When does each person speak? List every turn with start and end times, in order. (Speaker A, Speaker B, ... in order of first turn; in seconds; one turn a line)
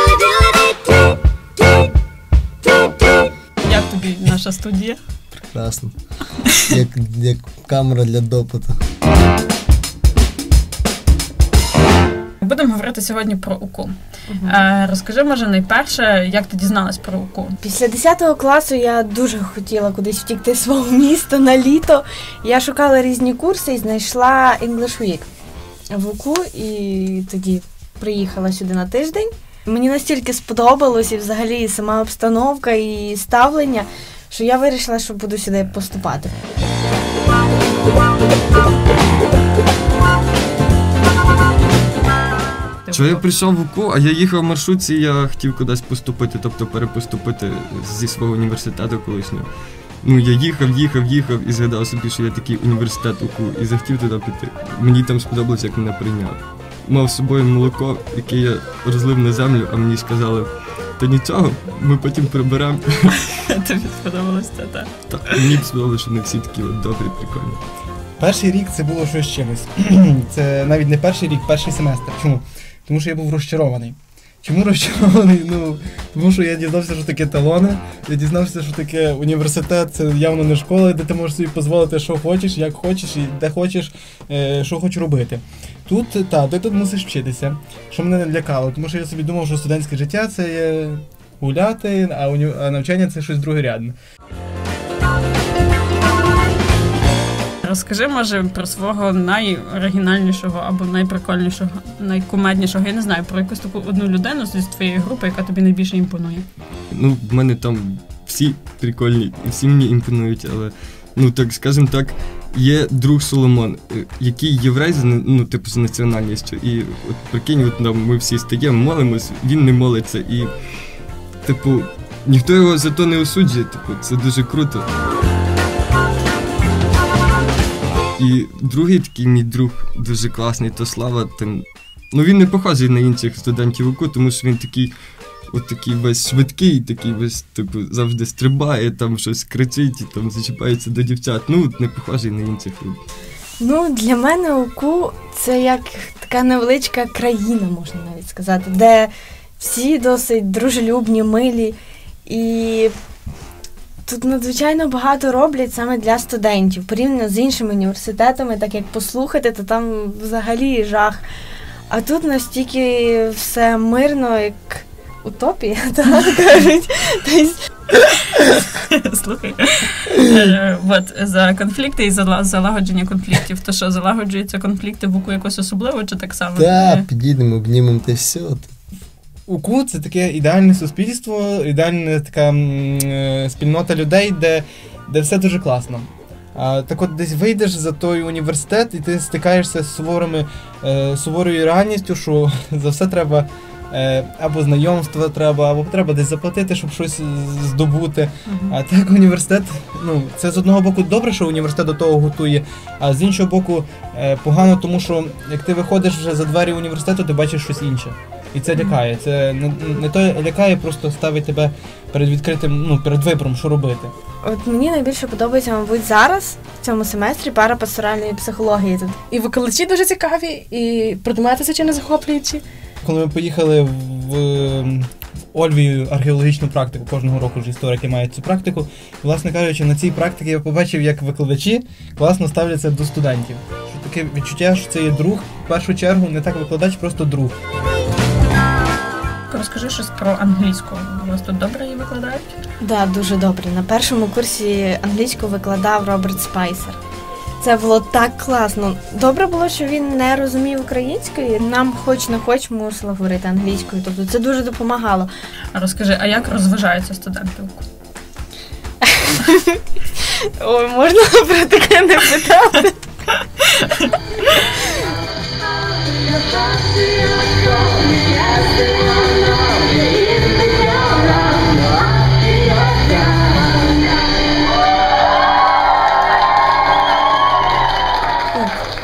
Speaker A: 3.6-5.0
Speaker B: 5.5-5.9
Speaker B: 6.7-8.8
Speaker A: 12.4-13.9
Speaker C: 14.3-14.6
Speaker A: 14.4-17.6
Speaker C: 17.6-25.3
Speaker C: 25.9-36.3
Speaker A: 42.9-43.3
Speaker D: 42.9-49.5
Speaker D: 50.0-63.2
Speaker A: 63.3-64.9
Speaker D: 65.1-67.6
Speaker E: 68.2-93.9
Speaker A: 97.6-106.5
Speaker D: 106.9-120.5
Speaker D: 121.4-124.9
Speaker D: 128.2-134.9
Speaker D: 135.5-143.0
Speaker C: 143.6-151.7
Speaker C: 152.3-152.9
Speaker C: 154.1-161.2
Speaker C: 161.9-167.6
Speaker A: 167.9-177.1
Speaker B: 176.6-178.7
Speaker E: 179.5-214.1
Speaker A: 198.5-198.8
Speaker C: 214.4-219.2
Speaker F: 219.3-222.6
Speaker E: 223.0-237.5
Speaker A: 239.5-242.6
Speaker C: 242.8-247.0
Speaker C: 247.6-255.3
Speaker A: 255.7-257.8
Speaker C: 259.0-259.8
Speaker C: 260.6-263.0
Speaker A: 263.4-264.1